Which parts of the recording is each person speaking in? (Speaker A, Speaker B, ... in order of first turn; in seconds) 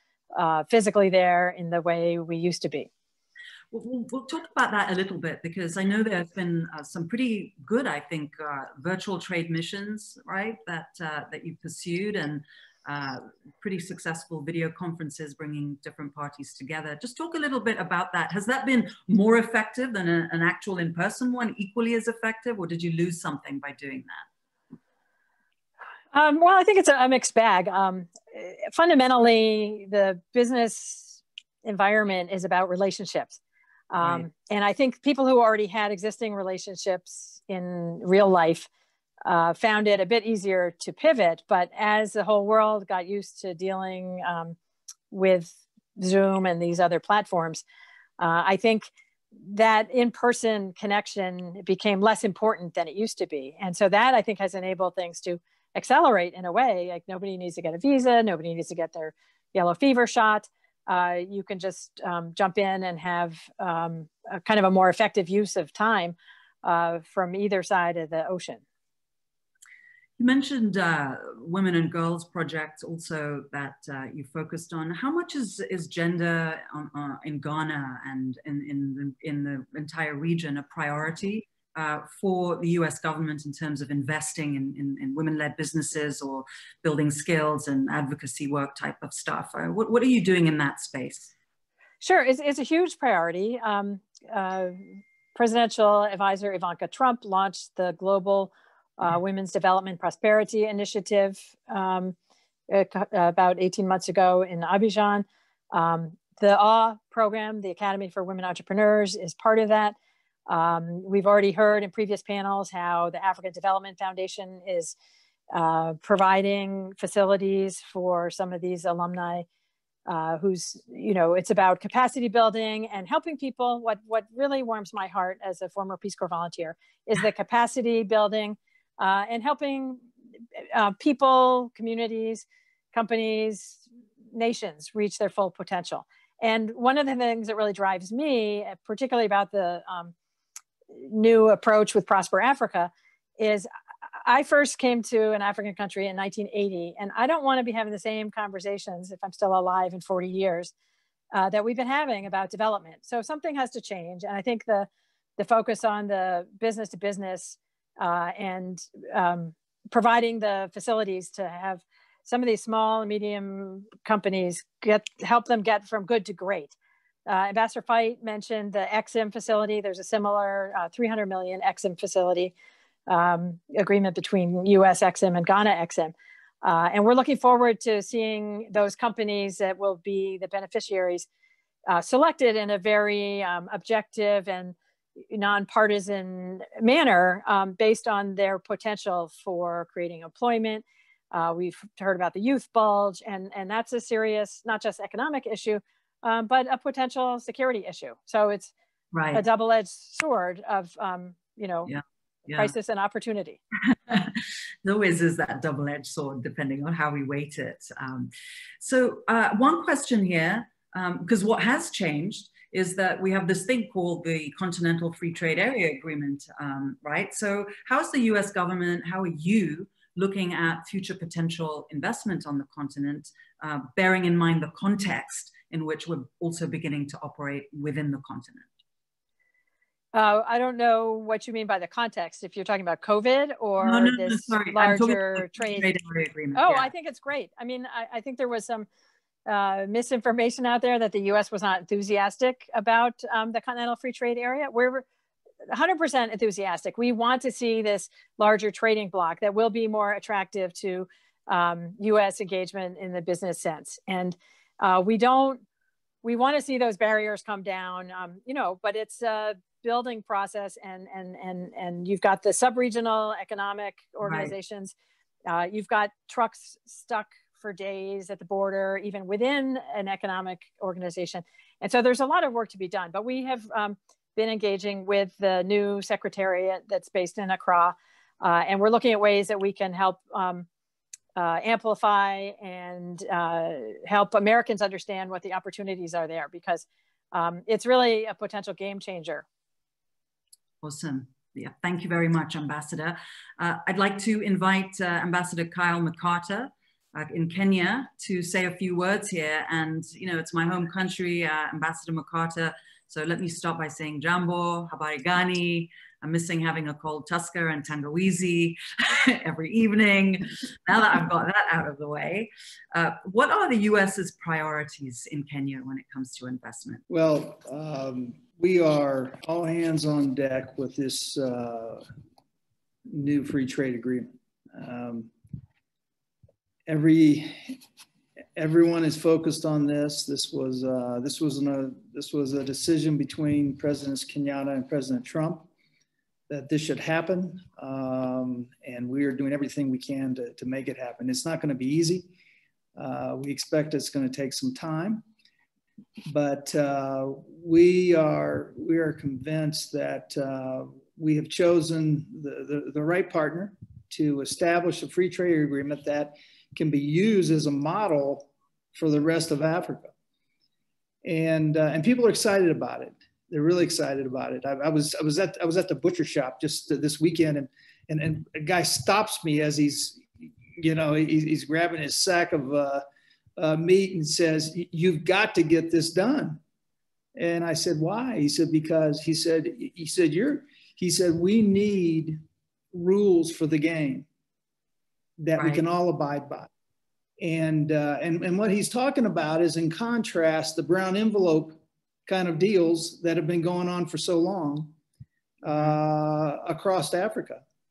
Speaker A: 0.3-2.9, 26.1-33.4, 33.9-38.7, 39.2-44.6, 45.1-47.6, 48.2-68.6, 92.0-102.2, 102.7-110.0, 110.5-114.9, 115.5-119.5, 120.1-130.0, 130.6-140.1, 140.9-143.7, 144.2-150.7, 151.3-166.7, 167.2-172.5, 173.1-181.3, 181.9-184.7, 185.3-198.7, 199.3-201.9, 202.5-203.6, 230.1-235.9, 236.5-238.9, 239.4-245.0, 245.7-255.6, 256.2-264.9, 265.5-280.7, 281.4-289.4
Speaker B: 3.7-24.2, 34.0-34.2, 70.2-91.3, 199.1-199.4, 201.8-202.7, 203.9-228.7, 233.8-236.9, 264.2-264.5, 290.8-317.0, 385.6-385.8, 395.7-396.0
Speaker C: 317.1-322.0, 323.1-325.3, 326.9-327.8, 328.6-335.7, 336.5-342.3, 342.9-345.2, 346.3-360.1, 361.2-373.0, 373.6-376.6, 377.4-382.4, 382.9-384.2, 385.4-386.7, 387.4-394.9, 395.6-397.6